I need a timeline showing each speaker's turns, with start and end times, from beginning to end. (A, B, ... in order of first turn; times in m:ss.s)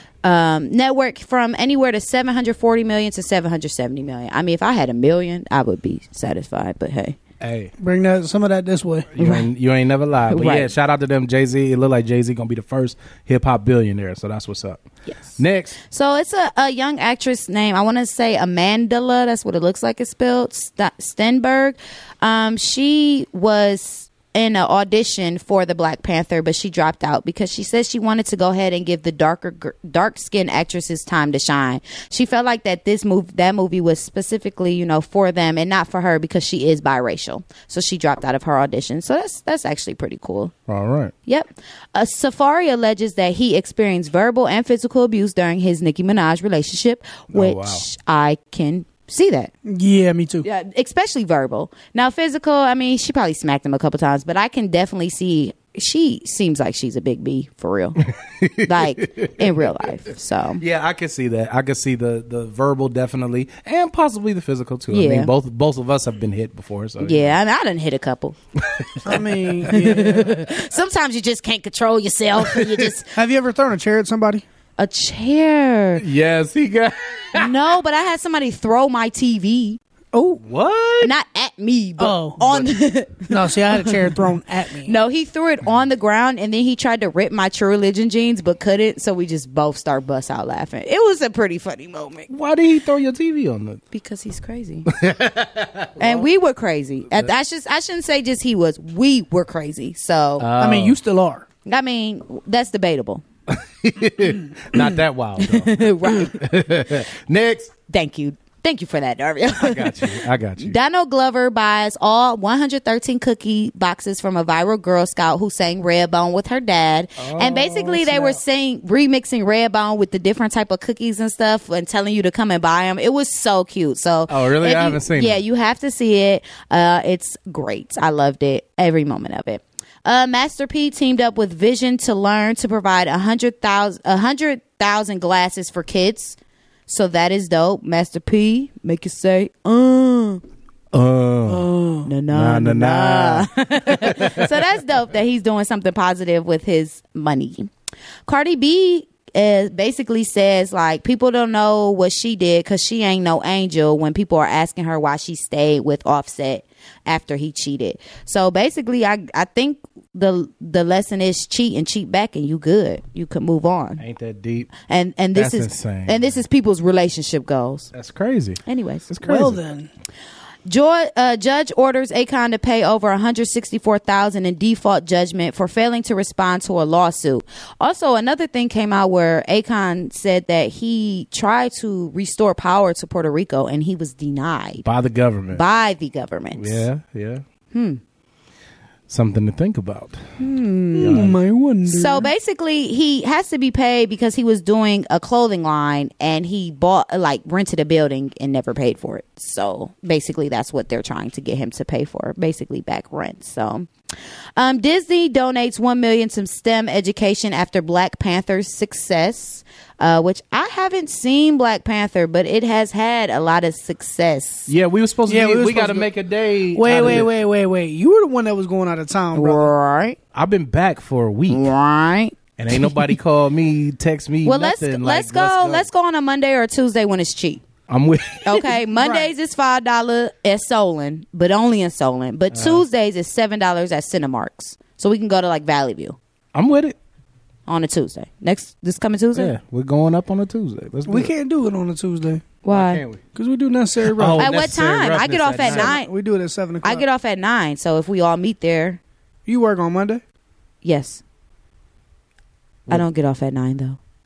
0:00.2-0:07.2 A
0:07.4-0:07.7 B
0:07.8-0:09.1 C
0:09.1-0:14.8 B
0:09.2-0:09.5 A
0:10.3-0:10.7 A
0:15.1-0:40.5 A
0:15.4-0:15.8 B
0:40.7-0:41.1 B
0:41.2-0:49.5 A
0:47.3-0:47.8 B
0:49.6-0:50.4 C
0:50.4-0:58.0 A
0:58.3-0:59.4 B
0:58.6-1:00.6 A
1:00.6-1:07.3 B
1:04.9-1:05.3 A
1:07.0-1:08.4 A
1:08.7-1:09.2 B
1:09.0-1:10.4 C
1:09.7-1:13.1 A
1:13.1-1:14.4 C
1:14.8-1:16.0 A
1:16.0-1:17.5 B
1:17.3-1:19.8 A
1:20.1-1:20.4 C
1:20.4-1:21.1 B
1:21.0-1:24.0 A
1:22.0-1:22.6 C
1:23.3-1:24.9 C
1:24.8-1:32.3 A
1:32.3-1:33.8 B
1:33.9-1:34.9 A
1:34.9-1:36.2 B
1:36.0-1:40.5 A
1:40.4-1:41.0 B
1:40.6-1:41.4 C
1:41.6-1:43.2 A
1:43.5-1:47.7 B
1:45.4-1:46.4 A
1:47.9-2:16.4 A
1:49.6-1:50.8 B
1:57.2-1:58.4 B
2:04.3-2:05.4 B
2:16.9-2:20.4 A
2:20.9-2:21.7 B
2:21.5-2:27.7 A
2:22.3-2:24.4 B
2:28.2-2:44.0 A
2:44.0-2:44.7 B
2:44.8-2:47.9 A
2:45.3-2:46.4 B
2:47.9-2:49.6 B
2:48.6-2:49.1 A
2:49.2-2:49.9 C
2:50.6-3:04.8 A
3:04.8-3:05.6 B
3:05.5-3:06.8 A
3:06.5-3:07.4 B
3:07.7-3:08.0 A
3:09.1-3:10.2 B
3:10.4-3:11.1 A
3:11.0-3:12.3 C
3:11.0-3:11.4 B
3:11.8-3:23.9 A
3:24.6-3:34.7 A
3:34.7-3:37.3 B
3:35.3-3:36.1 C
3:36.7-3:39.7 C
3:39.3-3:40.2 A
3:40.3-3:41.6 B
3:41.5-3:43.1 A
3:42.6-3:45.9 B
3:44.4-3:47.6 A
3:47.9-3:48.7 B
3:48.4-3:56.2 A
3:49.0-3:49.3 C
3:52.5-3:52.8 B
3:56.5-3:57.0 B
3:57.7-3:59.5 A
3:59.3-4:01.3 B
4:01.0-4:02.5 C
4:02.6-4:03.0 A
4:02.7-4:03.2 B
4:03.3-4:04.6 C
4:04.1-4:06.0 B
4:04.4-4:06.1 A
4:05.6-4:07.0 C
4:06.8-4:09.0 A
4:09.4-4:10.2 C
4:10.8-4:11.2 A
4:12.9-4:14.0 A